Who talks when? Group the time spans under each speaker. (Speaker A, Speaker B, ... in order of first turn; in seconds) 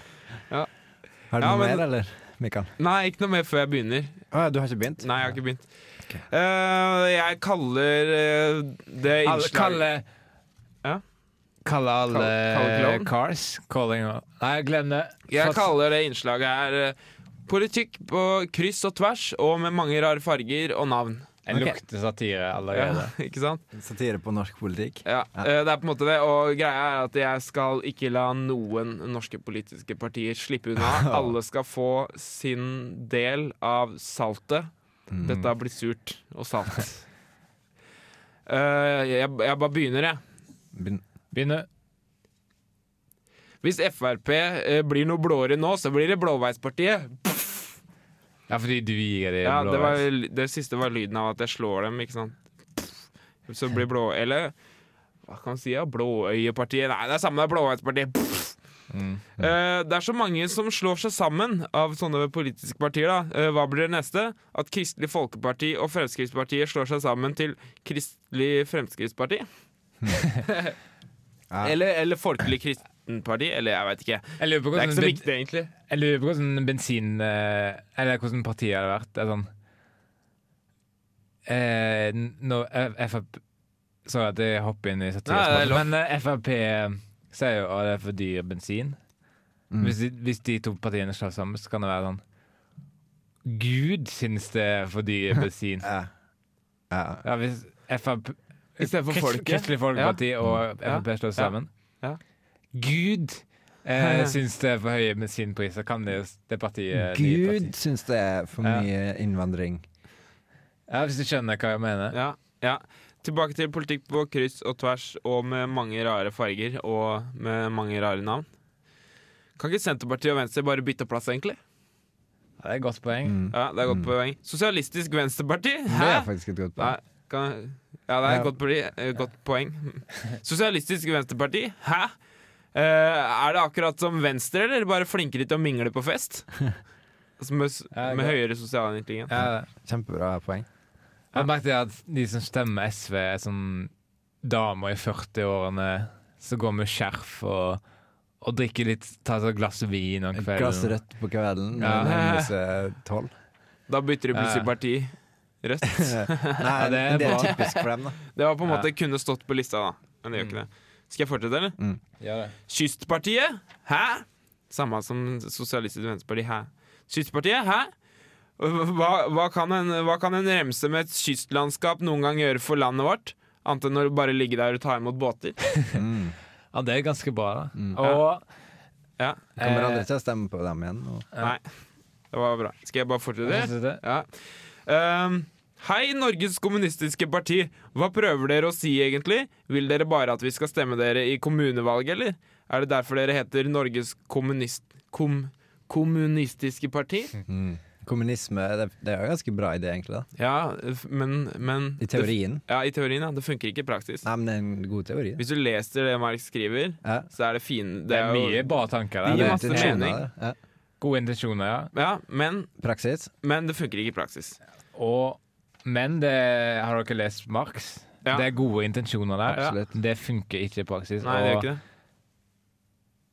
Speaker A: 1.3-2.7, 4.3-5.1, 23.7-25.5, 30.8-31.3, 35.1-35.4, 40.7-41.0, 89.7-90.0, 95.8-96.1, 96.9-97.2, 106.9-109.8, 123.2-124.1, 125.9-127.0, 139.4-140.7, 150.3-153.3, 156.0-158.2, 175.9-176.4, 179.6-181.3, 197.5-200.3, 202.0-202.6, 204.2-205.4, 209.3-210.6, 212.8-213.3, 219.5-219.9
Speaker B: 1.4-1.8, 2.8-4.2, 5.0-5.7, 6.3-9.8, 12.1-13.1, 15.3-17.0, 17.5-21.8, 22.7-23.6, 25.1-34.7, 35.2-37.0, 38.5-40.2, 43.6-47.7, 49.4-52.9, 53.5-54.5, 55.3-58.6, 59.4-69.5, 70.5-70.8, 71.6-75.7, 85.3-85.9, 98.8-100.2, 100.8-102.2, 104.0-104.3, 112.1-118.5, 119.6-121.6, 123.5-132.1, 132.7-136.5, 137.4-139.3, 151.9-152.5, 153.9-161.8, 162.7-167.9, 168.6-175.6, 178.0-178.2, 182.3-184.3, 184.9-197.3, 200.4-204.3, 205.4-210.2, 211.9-212.7, 213.4-214.6, 221.2-221.8
Speaker C: 9.3-10.1, 11.7-15.7, 21.5-23.1, 41.3-41.7, 48.5-50.0, 58.9-59.2, 74.4-75.3, 75.9-79.5, 81.5-83.4, 84.0-89.0, 89.8-92.2, 93.5-95.9, 97.2-101.7, 102.7-107.8, 108.6-108.9, 110.9-112.2, 122.6-123.4, 137.9-138.4, 139.3-139.7, 141.3-143.9, 144.4-147.8, 148.4-151.0, 151.8-152.1, 154.3-154.7, 156.8-157.5, 162.2-162.6, 176.7-178.4, 179.6-180.1, 183.4-184.0, 208.1-210.0, 211.0-211.9, 214.9-221.7